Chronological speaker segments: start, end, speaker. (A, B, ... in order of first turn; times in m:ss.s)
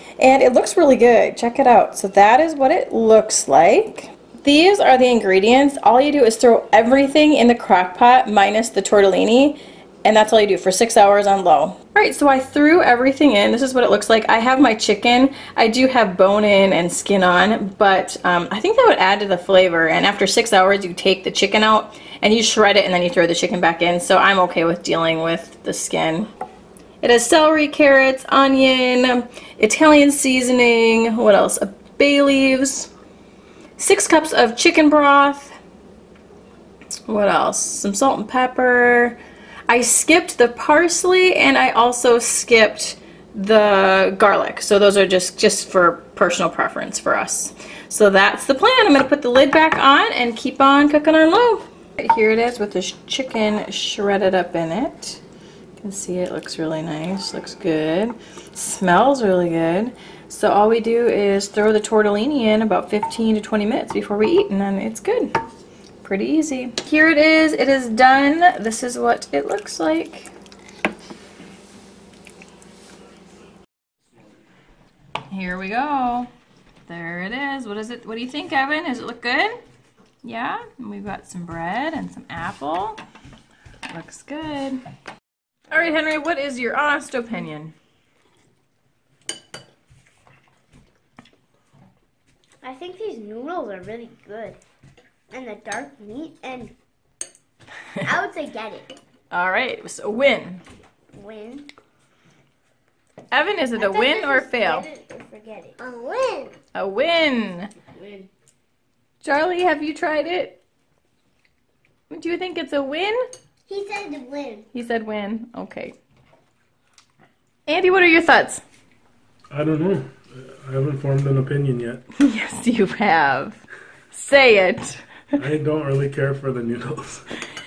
0:00.2-0:26.3 A
0:27.0-0:32.9 A
0:33.8-0:35.6 A
0:37.1-0:55.2 A
0:55.8-1:05.3 A
1:06.0-1:10.3 A
1:15.3-1:16.3 A
1:16.8-1:19.6 A
1:20.2-1:23.0 A
1:23.9-1:24.8 A
1:25.7-1:27.7 A
1:32.6-1:34.6 B
1:35.3-1:36.7 B
1:38.0-1:38.9 B
1:39.3-1:40.6 A
1:41.1-1:41.7 B
1:43.3-1:44.8 A
1:43.8-1:46.6 B
1:46.7-1:47.7 A
1:47.9-1:48.3 B
1:49.2-1:50.6 A
1:52.1-1:53.2 A
1:53.7-1:54.6 B
1:54.7-1:55.9 A
1:57.7-1:58.6 A
1:59.5-2:02.0 C
2:02.2-2:05.3 A
2:05.4-2:07.3 C